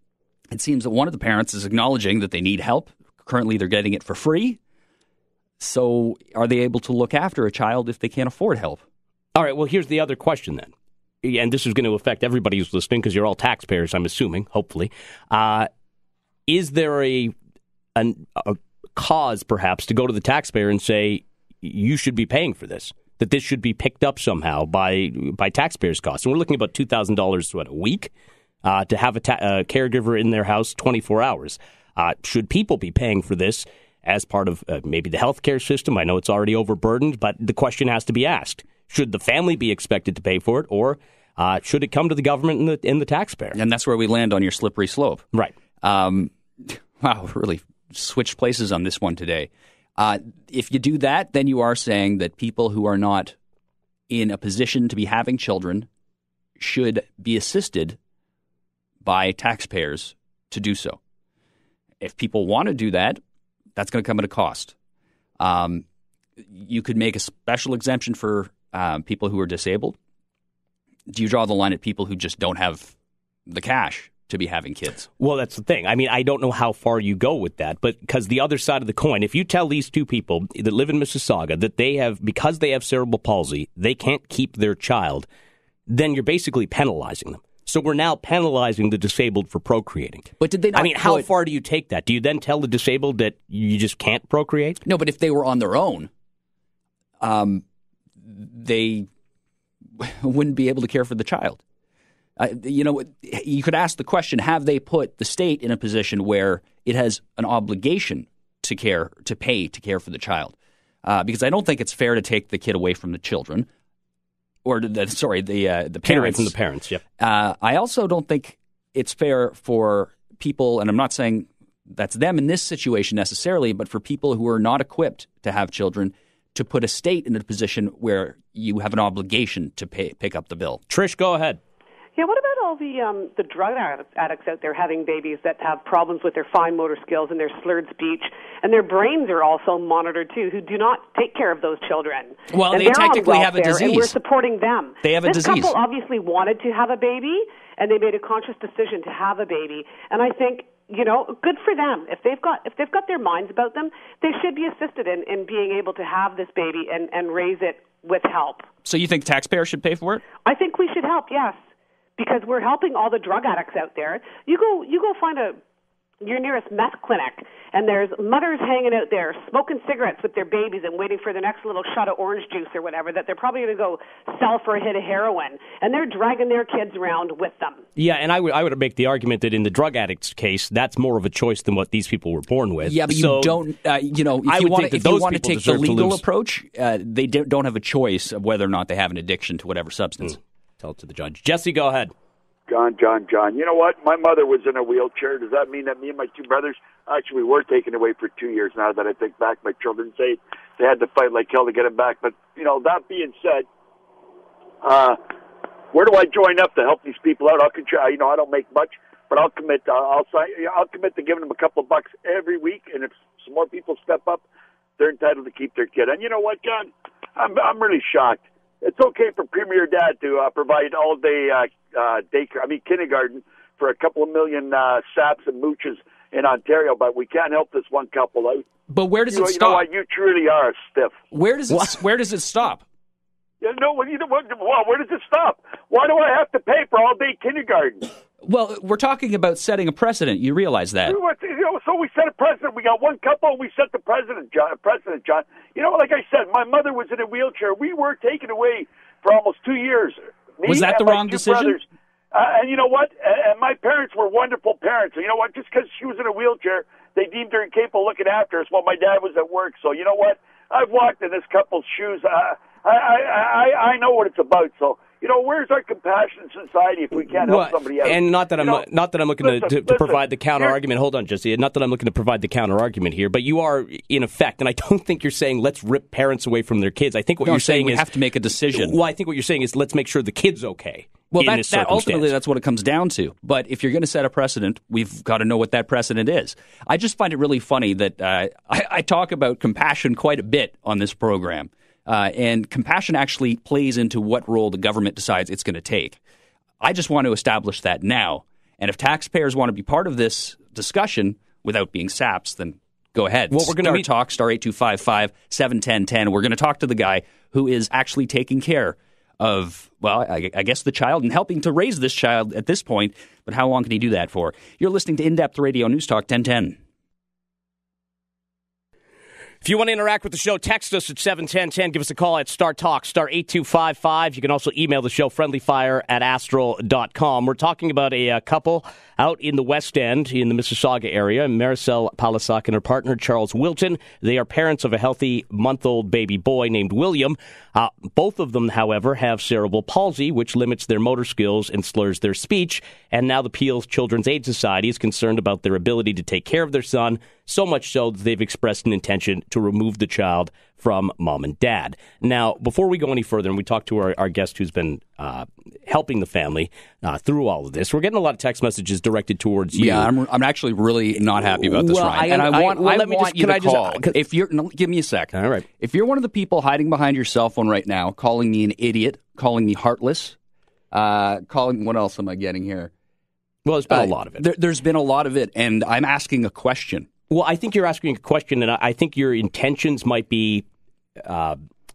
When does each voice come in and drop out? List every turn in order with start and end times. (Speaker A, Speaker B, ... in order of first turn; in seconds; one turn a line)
Speaker A: 0.5-4.6
Speaker A: 5.6-8.8
Speaker B: 9.3-10.7
Speaker B: 11.2-15.7
Speaker B: 16.5-17.3
Speaker B: 18.0-28.1
Speaker B: 28.6-43.6
Speaker A: 43.5-45.3
Speaker A: 45.8-53.4
Speaker A: 54.1-55.9
Speaker A: 56.6-58.0
Speaker A: 59.0-61.0
Speaker A: 62.0-63.2
Speaker A: 63.8-64.8
Speaker A: 65.4-65.8
Speaker A: 66.5-70.0
Speaker A: 71.1-73.0
Speaker A: 73.5-75.1
Speaker B: 75.2-85.3
Speaker B: 85.9-94.8
Speaker A: 90.4-91.3
Speaker A: 94.8-96.1
Speaker A: 97.2-97.6
Speaker A: 98.2-99.1
Speaker A: 100.0-101.6
Speaker A: 102.4-113.7
Speaker A: 114.6-116.5
Speaker B: 116.0-117.0
Speaker A: 117.2-130.8
Speaker B: 130.9-131.6
Speaker C: 132.2-158.7
Speaker A: 142.5-144.2
Speaker A: 145.0-145.7
Speaker A: 158.8-160.2
Speaker C: 160.4-161.6
Speaker C: 162.2-165.6
Speaker C: 166.2-177.8
Speaker B: 178.0-183.6
Speaker A: 182.8-190.4
Speaker B: 184.4-186.2
Speaker B: 190.2-192.1
Speaker D: 192.7-203.7
Speaker D: 204.8-205.2
Speaker D: 205.9-214.4
Speaker D: 215.0-228.7
Speaker A: 228.9-229.9
Speaker D: 229.3-231.2
Speaker A: 231.3-232.8
Speaker D: 233.6-238.1
Speaker A: 238.4-241.2
Speaker D: 241.1-268.9
Speaker A: 250.6-251.8
Speaker B: 267.4-278.1
Speaker D: 269.4-270.8
Speaker A: 277.4-279.0
Speaker B: 278.7-282.3
Speaker A: 281.3-296.2
Speaker A: 296.8-316.8
Speaker B: 303.5-304.1
Speaker B: 319.6-360.1
Speaker A: 359.7-370.4
Speaker B: 361.4-364.2
Speaker B: 365.3-365.7
Speaker A: 370.9-372.9
Speaker B: 373.6-374.4
Speaker A: 373.9-377.1
Speaker B: 377.3-380.7
Speaker B: 381.2-381.6